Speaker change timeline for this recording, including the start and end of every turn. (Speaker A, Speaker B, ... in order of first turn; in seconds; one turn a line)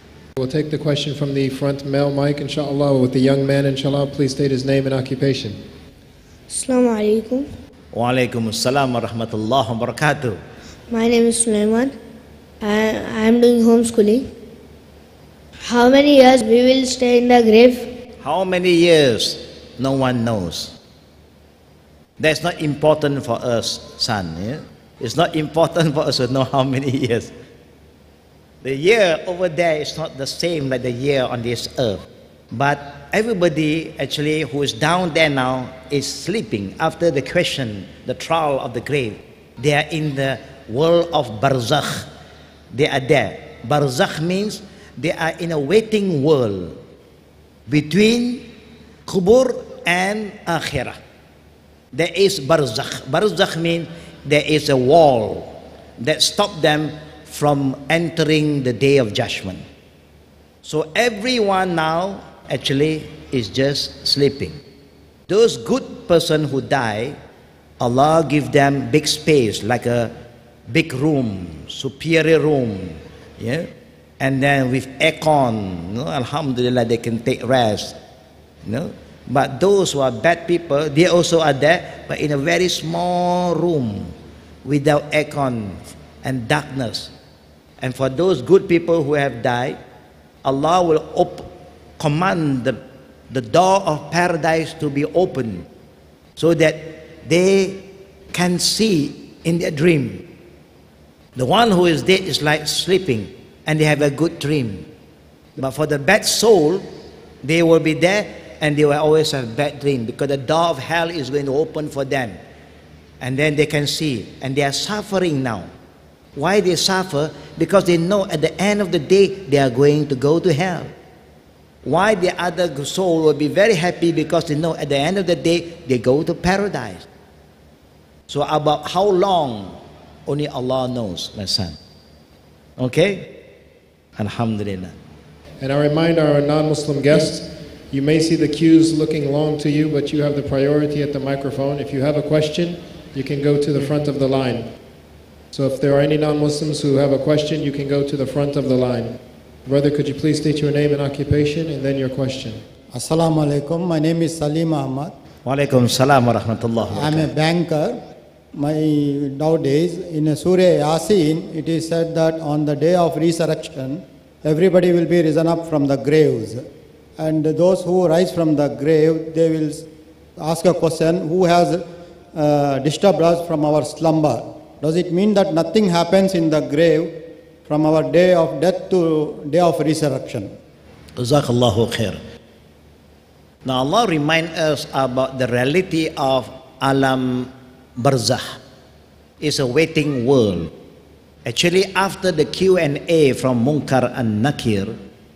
Speaker A: 0.3-5.6
Speaker B: 6.5-7.5
Speaker C: 7.9-10.4
Speaker B: 10.9-11.9
Speaker B: 12.6-14.3
Speaker B: 15.7-17.9
Speaker C: 18.2-20.8
Speaker C: 22.2-27.3
Speaker C: 28.6-42.1
Speaker C: 42.7-46.8
Speaker C: 47.7-48.5
Speaker C: 49.1-51.0
Speaker C: 51.9-59.6
Speaker C: 60.6-64.6
Speaker C: 65.3-67.2
Speaker C: 67.8-70.1
Speaker C: 70.7-73.7
Speaker C: 74.2-78.0
Speaker C: 78.6-84.1
Speaker C: 84.6-87.1
Speaker C: 87.8-89.8
Speaker C: 90.4-91.5
Speaker C: 92.0-92.8
Speaker C: 93.3-95.7
Speaker C: 96.4-100.2
Speaker C: 101.3-104.8
Speaker C: 105.5-106.8
Speaker C: 107.4-112.4
Speaker C: 113.2-115.7
Speaker C: 116.3-120.9
Speaker C: 121.8-127.0
Speaker C: 128.3-131.8
Speaker C: 132.8-133.3
Speaker C: 134.2-134.9
Speaker A: 135.6-144.7
Speaker A: 145.5-152.6
Speaker D: 152.9-155.1
Speaker C: 155.4-157.3
Speaker D: 156.9-158.0
Speaker D: 158.5-166.7
Speaker D: 167.2-169.8
Speaker D: 170.4-180.5
Speaker C: 181.2-182.2
Speaker C: 183.6-188.6
Speaker C: 189.4-190.7
Speaker C: 191.4-194.9